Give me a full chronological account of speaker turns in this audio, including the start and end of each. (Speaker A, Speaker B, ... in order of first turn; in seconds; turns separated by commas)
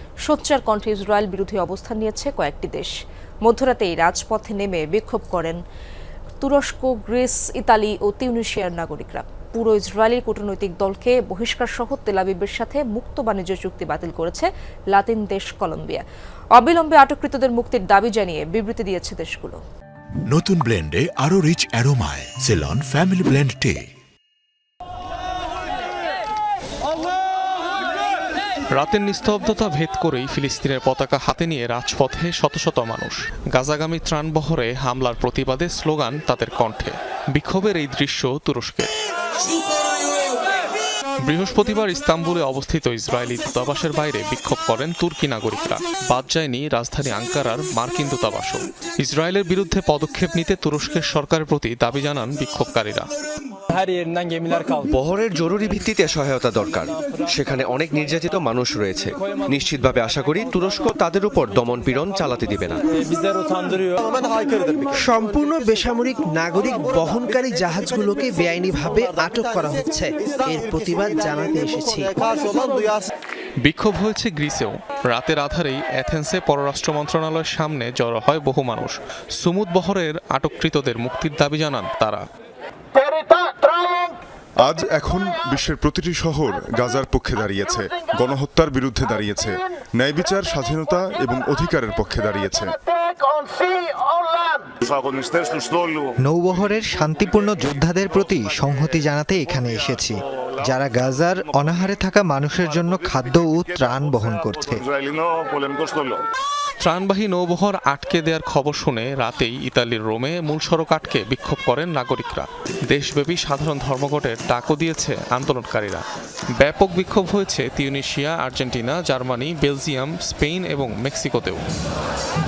Speaker A: 0.2-2.9, Speaker A: 3.5-5.6, Speaker A: 6.4-16.0, Speaker A: 16.6-19.6, Speaker B: 20.3-23.8, Speaker C: 28.8-38.9, Speaker C: 41.2-53.1, Speaker D: 53.7-54.9, Speaker E: 54.9-62.8, Speaker D: 63.0-64.1, Speaker F: 64.9-72.7, Speaker C: 73.6-82.2, Speaker G: 84.6-92.7, Speaker H: 96.2-104.8, Speaker C: 106.8-116.0, Speaker C: 116.6-121.6